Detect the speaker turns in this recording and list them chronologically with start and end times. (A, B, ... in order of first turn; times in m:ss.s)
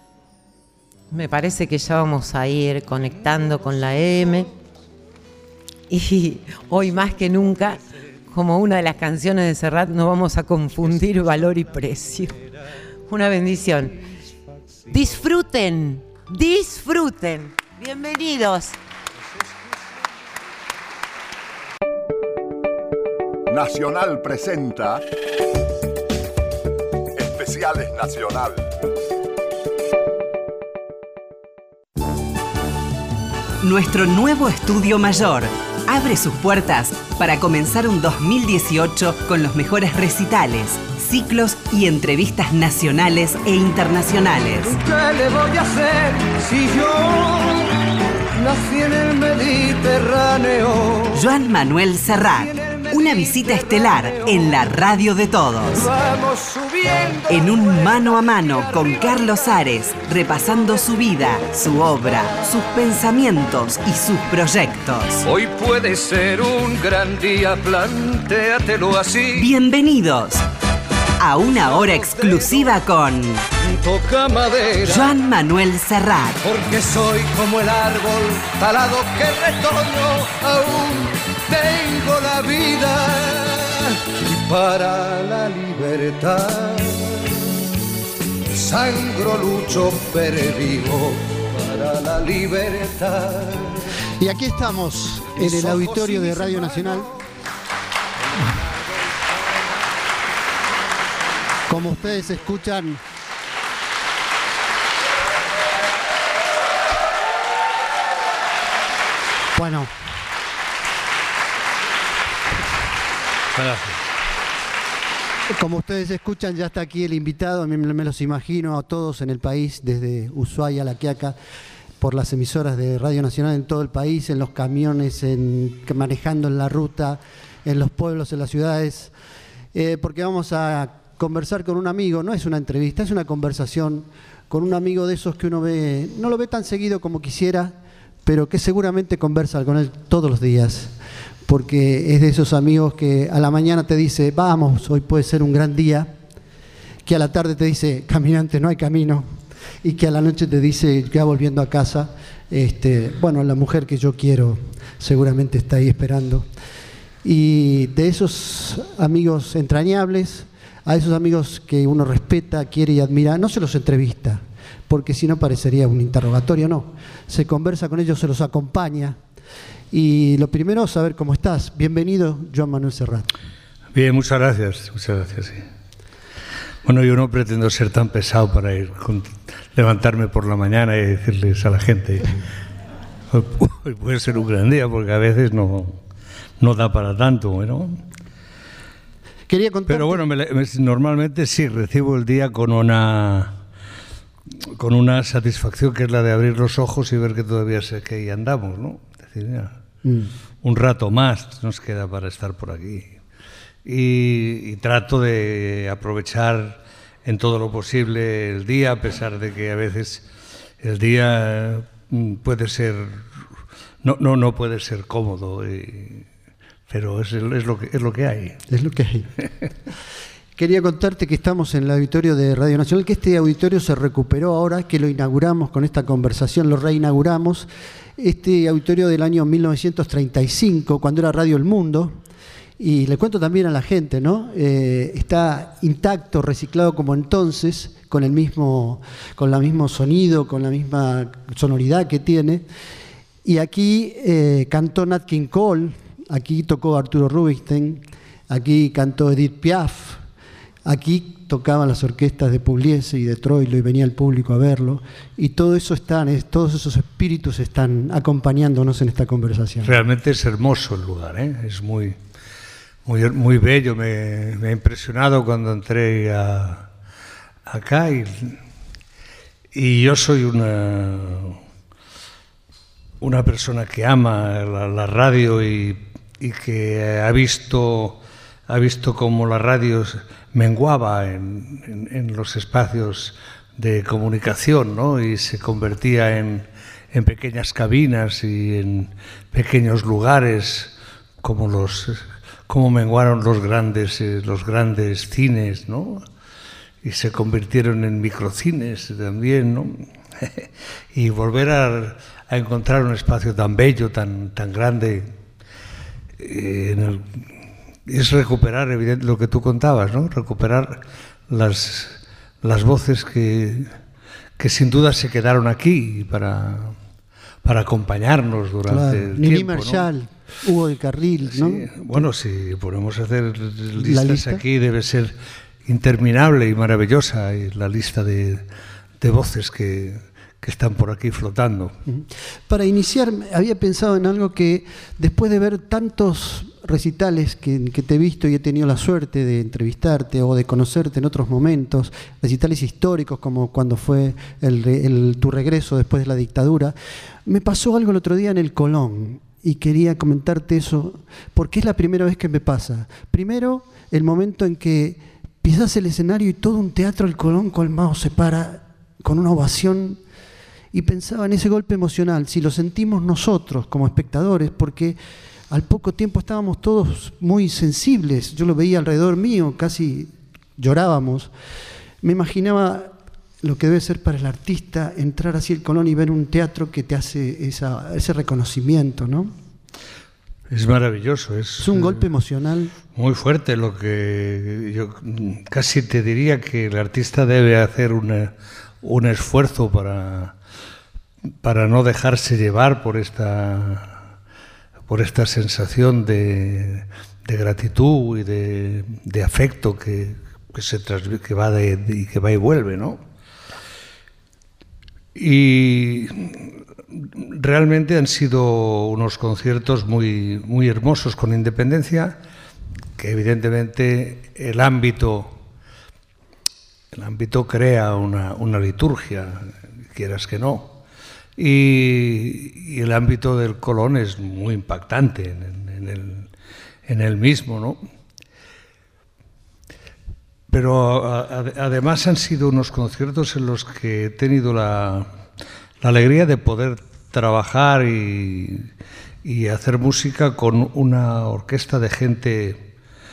0:01.1-0:04.5 A
0:05.9-0:12.4 A
0:13.1-0:14.0 A
0:14.9-0:18.8 A
0:23.5-0:25.0 B
0:27.2-0:28.6 B
0:33.6-0:44.8 C
0:44.6-0:51.3 D
0:51.1-0:55.9 C
0:52.3-0:54.6 D
0:55.7-0:59.2 D
0:57.3-1:05.3 C
1:05.2-1:09.5 D
1:09.4-1:10.5 C
1:11.2-1:13.4 C
1:11.6-1:12.7 D
1:13.6-1:15.1 D
1:14.8-1:16.4 C
1:16.4-1:27.6 D
1:28.5-1:34.0 D
1:34.2-1:37.1 E
1:35.3-1:37.2 D
1:41.7-1:43.0 E
1:49.6-1:49.9 E
1:53.6-1:54.0 F
1:55.5-2:01.4 E
2:02.0-2:09.1 E
2:09.7-2:20.9 E
2:21.5-2:26.2 E
2:27.0-2:29.3 E
2:29.8-2:36.5 E
2:37.2-2:49.2 E
2:49.9-2:53.3 E
2:53.9-2:55.7 F
2:56.8-3:02.4 F
3:03.3-3:06.0 F
3:06.6-3:08.0 F
3:09.5-3:10.2 E
3:09.9-3:13.6 F
3:14.6-3:19.7 F
3:20.0-3:20.3 E
3:20.6-3:23.1 F
3:23.8-3:30.2 F
3:30.8-3:33.2 F
3:34.0-3:36.3 F
3:36.9-3:38.6 F
3:38.7-3:39.3 E
3:40.6-3:52.2 E
3:52.8-4:02.6 E
4:03.4-4:10.2 E
4:10.9-4:20.0 E
4:19.8-4:22.2 F
4:23.0-4:26.9 F
4:27.7-4:28.6 F
4:29.7-4:31.6 F
4:33.2-4:56.2 F
4:57.0-5:05.3 F
5:06.4-5:07.4 F
5:08.1-5:13.9 F
5:14.6-5:17.0 F
5:17.6-5:20.1 F
5:18.9-5:22.3 E
5:21.5-5:25.3 F
5:24.0-5:24.6 E
5:25.8-5:28.6 F
5:29.2-5:31.9 F
5:32.1-5:46.9 E
5:47.4-6:00.2 E
6:00.9-6:05.2 E
6:05.7-6:11.5 E
6:12.2-6:19.6 E
6:20.7-6:22.3 F
6:21.8-6:22.9 E
6:23.2-6:30.6 F
6:31.6-6:34.2 F
6:35.1-6:43.2 F
6:45.3-6:52.4 F
6:53.2-6:55.5 F
6:57.1-7:01.0 F
7:01.6-7:06.5 F
7:07.1-7:08.0 F
7:10.7-7:15.3 F
7:16.0-7:18.9 F
7:19.4-7:22.8 F